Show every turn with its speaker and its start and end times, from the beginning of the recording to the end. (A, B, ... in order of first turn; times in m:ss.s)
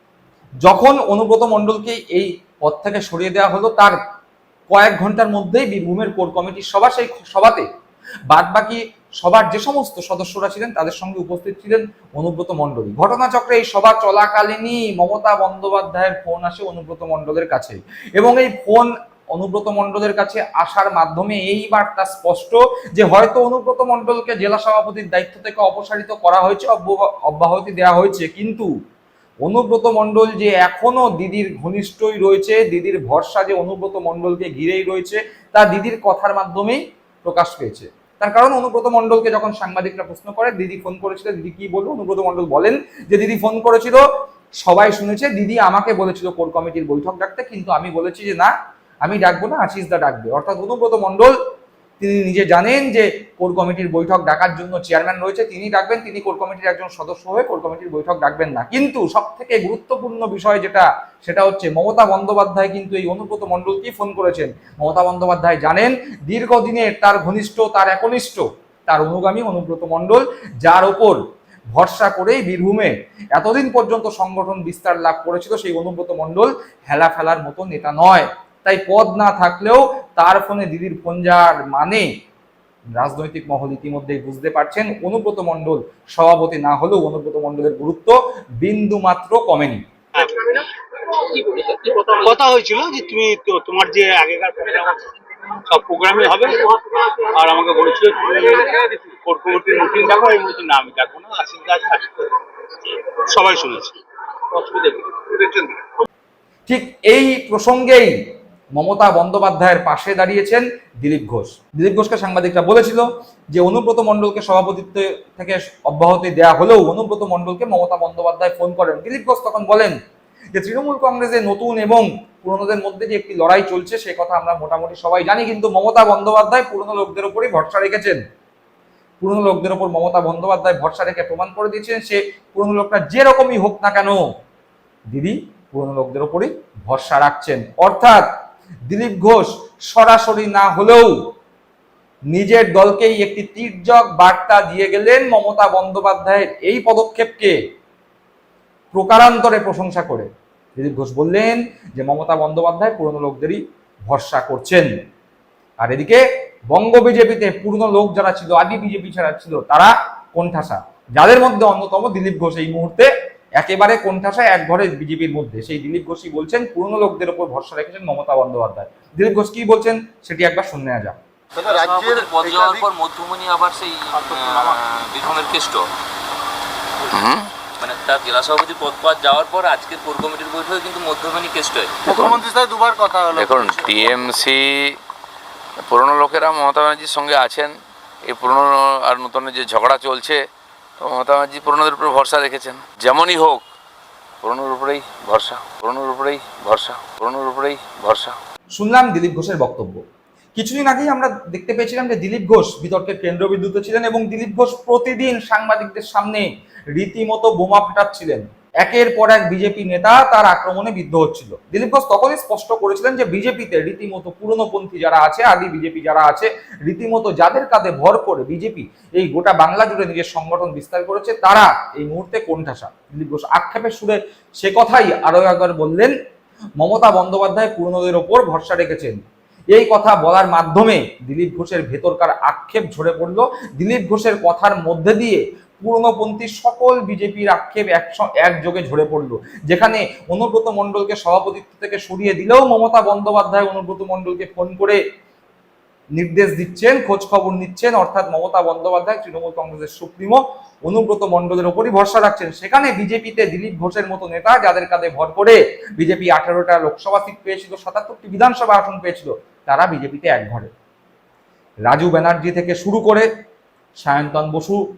0:00.6-0:04.0 A
0:04.7-0:07.6 A
0:08.3-0:28.7 A
0:29.4-0:44.0 A
0:44.6-0:51.3 A
0:52.0-1:11.2 A
1:11.7-1:22.1 A
1:23.0-1:29.8 A
1:30.1-1:35.1 B
1:35.6-1:44.0 B
1:44.5-1:45.7 B
1:46.7-1:48.1 A
1:48.7-1:59.9 A
2:00.5-2:08.2 A
2:09.2-2:14.2 A
2:15.1-2:18.2 A
2:18.9-2:21.2 A
2:22.3-2:27.6 A
2:28.9-2:34.9 A
2:35.8-2:51.2 A
2:51.5-2:52.9 C
2:51.9-2:54.5 D
2:54.2-2:54.7 C
2:55.1-2:55.8 D
2:57.1-2:57.5 E
2:57.8-3:01.9 D
3:02.0-3:04.5 C
3:03.3-3:05.0 E
3:05.9-3:07.7 E
3:08.2-3:10.4 E
3:11.0-3:13.7 E
3:14.4-3:18.4 E
3:18.7-3:20.0 A
3:20.6-3:46.1 A
3:46.8-3:49.2 A
3:49.7-4:05.0 A
4:06.1-4:20.7 A
4:21.8-4:23.3 A
4:24.0-4:24.8 A